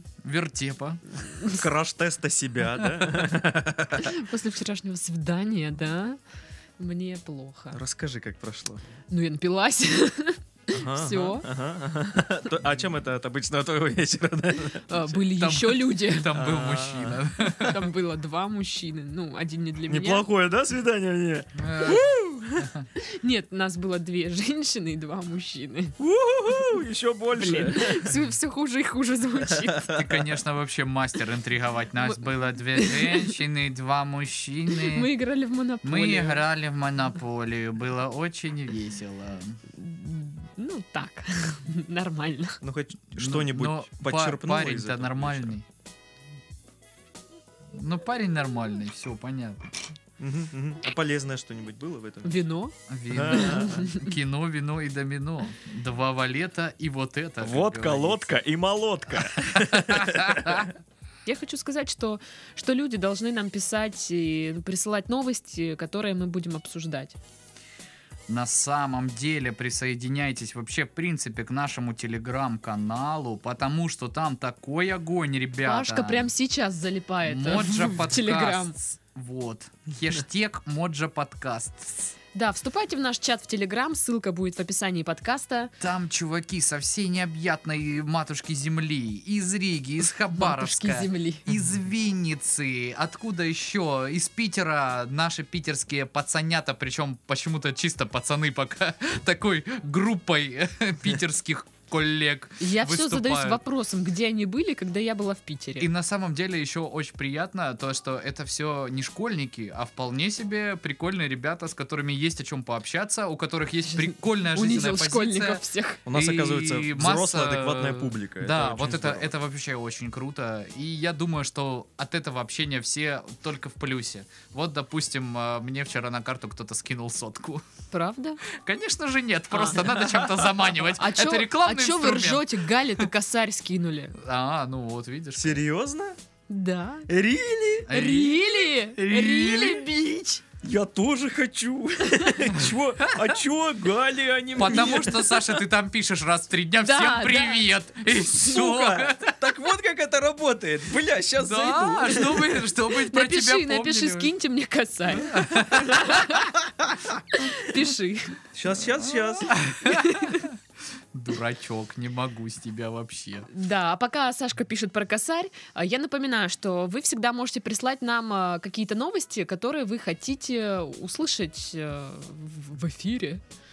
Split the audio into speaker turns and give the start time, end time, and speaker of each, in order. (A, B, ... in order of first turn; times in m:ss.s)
0:00.2-0:01.0 A
0:01.2-0:01.6 B
0:01.5-0:04.1 C
0:04.0-0:06.2 B
0:06.8-0:07.8 B
0:07.7-0:08.8 C
0:09.1-0:11.5 B
0:10.7-0:15.0 C
0:14.8-0:16.3 B
0:15.4-0:17.9 A
0:16.3-0:17.2 C
0:17.4-0:20.2 B
0:19.9-0:22.7 C
0:21.6-0:22.1 A
0:21.9-0:22.3 B
0:23.0-0:26.0 B
0:26.0-0:28.1 C
0:27.4-0:29.9 B
0:29.8-0:30.1 C
0:29.9-0:35.1 A
0:32.7-0:33.4 B
0:34.7-0:36.4 B
0:35.8-0:39.6 A
0:39.7-0:42.6 B
0:42.6-0:45.6 C
0:43.2-0:45.6 A
0:47.7-0:49.7 A
0:50.2-0:52.4 C
0:52.2-0:52.7 B
0:52.9-0:58.4 A
0:53.1-0:53.9 C
0:53.3-0:54.0 B
0:57.4-1:00.7 C
0:59.6-1:00.7 A
1:01.3-1:07.2 B
1:08.3-1:16.3 A
1:15.6-1:18.8 B
1:17.3-1:22.1 A
1:22.3-1:25.7 B
1:25.8-1:43.6 A
1:30.3-1:31.5 B
1:42.6-1:45.9 B
1:45.8-2:07.7 A
1:53.9-1:56.0 B
1:56.1-1:59.3 C
2:07.9-2:08.4 B
2:08.4-2:13.1 A
2:09.5-2:09.9 B
2:11.0-2:14.2 B
2:14.2-2:15.6 A
2:15.4-2:16.2 C
2:16.5-2:17.1 B
2:17.1-2:17.9 C
2:17.9-2:19.9 A
2:17.9-2:20.4 B
2:20.6-2:25.6 C
2:24.6-2:29.5 A
2:26.8-2:27.7 B
2:28.3-2:32.7 C
2:31.4-2:34.3 A
2:32.9-2:36.7 B
2:35.2-2:36.4 A
2:37.3-2:38.4 B
2:38.5-2:39.6 C
2:39.5-2:40.6 A
2:39.8-2:40.5 B
2:41.1-2:43.5 A
2:43.5-2:53.4 B